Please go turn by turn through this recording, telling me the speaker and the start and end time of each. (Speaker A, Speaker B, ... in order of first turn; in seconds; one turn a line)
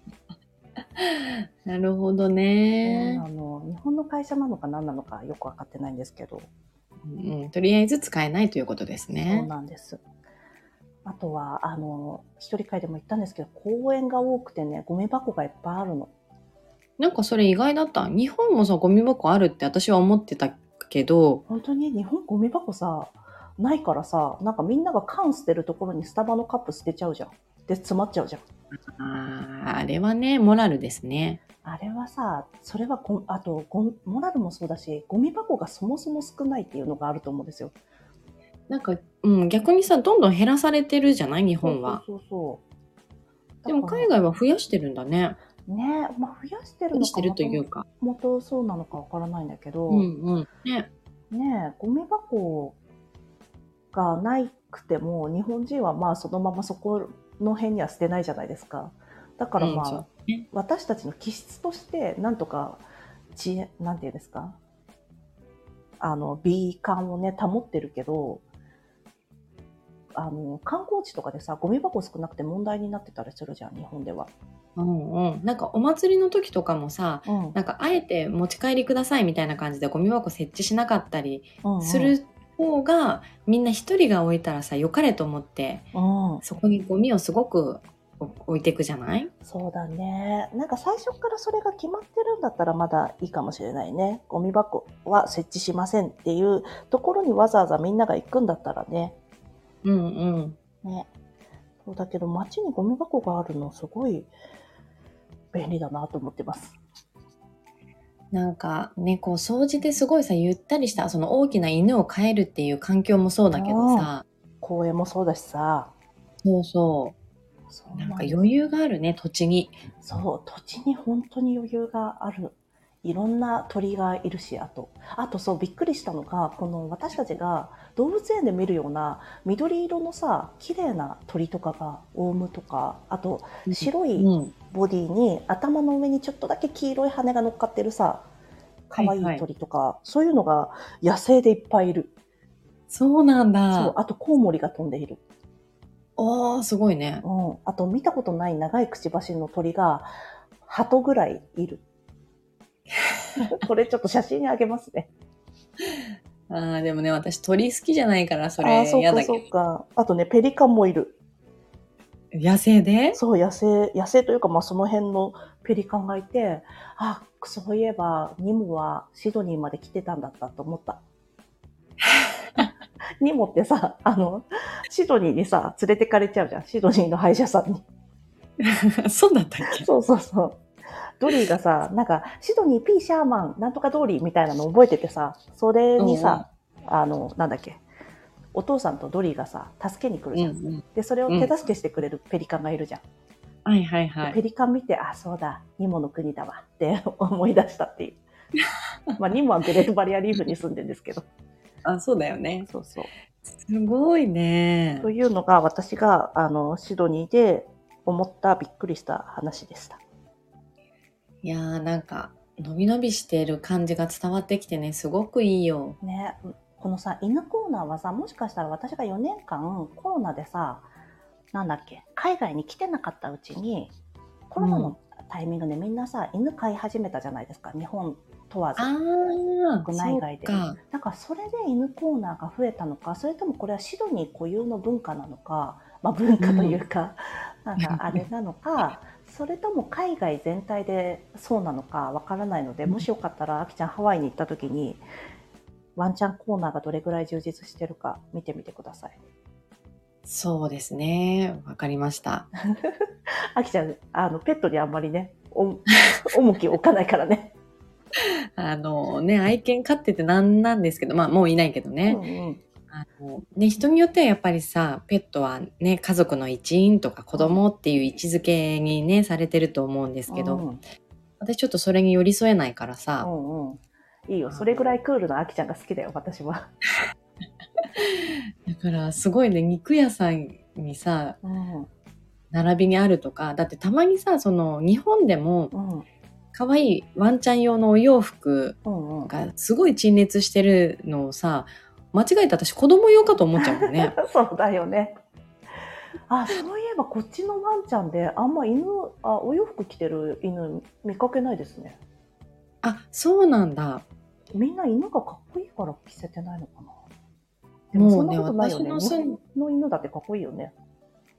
Speaker A: 0.9-3.2
Speaker B: 2.8-6.5
Speaker A: 7.1-9.5
Speaker B: 9.2-10.0
Speaker B: 11.0-16.1
Speaker A: 17.0-21.4
Speaker B: 21.5-28.4
Speaker A: 29.0-31.4
Speaker B: 31.6-37.7
Speaker A: 38.7-42.0
Speaker B: 41.6-42.6
Speaker B: 43.6-44.1
Speaker A: 43.7-45.4
Speaker B: 45.7-50.1
Speaker A: 46.9-47.9
Speaker A: 49.9-50.9
Speaker B: 51.3-52.8
Speaker B: 53.9-62.8
Speaker A: 59.6-60.5
Speaker B: 63.3-64.6
Speaker B: 66.0-68.4
Speaker B: 70.1-74.3
Speaker A: 74.8-85.9
Speaker B: 77.3-77.6
Speaker B: 81.6-82.2
Speaker B: 85.9-86.4
Speaker A: 86.4-89.3
Speaker B: 89.4-99.2
Speaker A: 99.8-100.6
Speaker B: 100.8-101.1
Speaker B: 101.8-104.3
Speaker B: 105.5-106.8
Speaker A: 108.3-114.2
Speaker B: 113.5-114.1
Speaker B: 114.6-115.9
Speaker A: 116.4-117.1
Speaker B: 117.7-118.5
Speaker A: 118.0-119.8
Speaker B: 120.0-138.3
Speaker A: 133.7-134.5
Speaker B: 138.9-142.1
Speaker A: 138.9-139.4
Speaker A: 142.9-143.9
Speaker B: 143.7-145.2
Speaker A: 146.2-147.2
Speaker B: 147.2-150.1
Speaker B: 150.6-151.8
Speaker B: 153.4-155.1
Speaker A: 155.9-159.4
Speaker B: 158.6-161.2
Speaker A: 162.3-163.2
Speaker B: 163.1-171.0
Speaker B: 173.2-177.8
Speaker A: 178.6-179.9
Speaker B: 179.7-180.6
Speaker B: 181.2-187.8
Speaker A: 186.0-186.4
Speaker B: 188.5-193.0
Speaker A: 190.3-191.5
Speaker A: 193.6-194.4
Speaker B: 194.2-198.2
Speaker B: 199.2-201.2
Speaker A: 201.8-202.7
Speaker B: 202.6-203.1
Speaker A: 203.5-205.1
Speaker B: 205.0-210.0
Speaker A: 211.4-216.0
Speaker B: 216.0-220.8
Speaker B: 221.5-223.9
Speaker B: 224.5-228.9
Speaker A: 224.6-224.9
Speaker A: 228.8-230.8
Speaker B: 229.8-245.0
Speaker A: 236.4-236.8
Speaker A: 237.8-238.2
Speaker B: 245.9-249.2
Speaker A: 250.2-252.5
Speaker B: 252.7-257.5
Speaker A: 258.6-262.2
Speaker B: 262.1-262.6
Speaker A: 262.9-270.7
Speaker B: 267.3-267.6
Speaker B: 270.3-270.8
Speaker A: 271.4-273.3
Speaker B: 273.2-276.7
Speaker A: 274.5-274.8
Speaker A: 277.8-281.4
Speaker B: 281.4-281.9
Speaker A: 282.5-285.7
Speaker B: 285.7-286.1
Speaker A: 286.5-294.1
Speaker B: 288.8-289.3
Speaker B: 293.6-295.2
Speaker B: 296.3-302.0
Speaker A: 302.8-304.0
Speaker B: 304.5-307.0
Speaker B: 307.9-310.7
Speaker A: 307.9-309.4